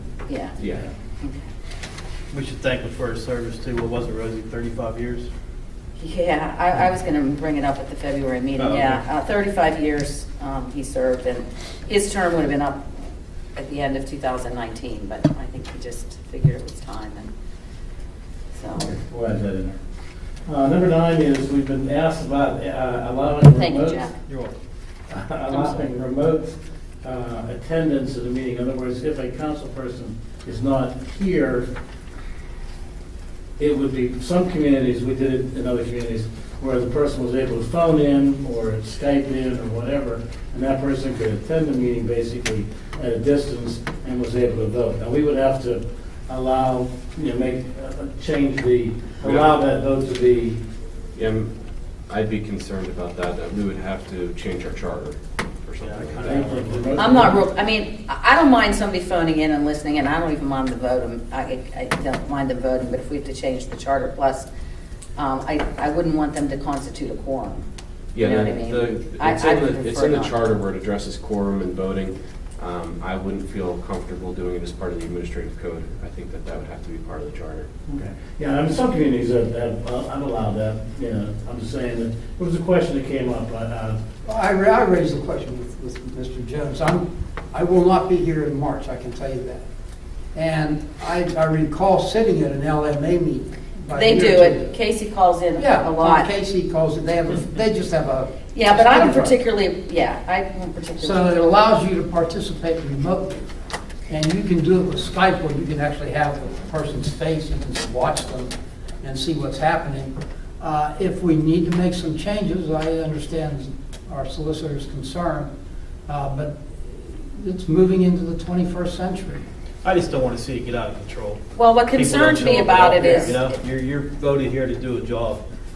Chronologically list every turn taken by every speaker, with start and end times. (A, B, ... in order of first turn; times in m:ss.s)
0:00.6-0:00.8 A
0:02.3-0:05.3 B
0:06.0-0:12.0 C
0:06.2-0:06.5 B
0:07.1-0:11.3 B
0:11.9-0:12.7 B
0:13.6-0:17.3 C
0:13.6-0:16.3 B
0:18.8-0:19.8 D
0:20.4-0:24.1 D
0:23.6-0:24.1 C
0:23.7-0:24.5 B
0:25.1-0:31.7 D
0:25.5-0:25.8 B
0:33.6-0:50.6 D
0:49.2-0:49.6 A
0:51.1-0:51.5 A
0:52.1-0:56.4 A
0:55.8-0:57.5 B
0:56.2-0:57.4 D
0:57.0-1:04.5 C
0:58.1-0:59.0 B
0:59.5-1:00.1 B
1:05.2-1:07.6 C
1:08.1-1:17.7 A
1:08.2-1:10.3 C
1:08.4-1:08.8 B
1:17.9-1:24.0 D
1:24.2-1:29.6 E
1:30.3-1:34.7 E
1:34.0-1:36.1 C
1:34.0-1:36.3 B
1:35.6-1:39.4 E
1:38.5-1:41.1 C
1:38.6-1:40.0 B
1:41.0-1:43.4 E
1:44.1-1:55.5 E
1:56.1-1:59.4 E
1:59.8-2:05.4 B
2:01.6-2:03.4 C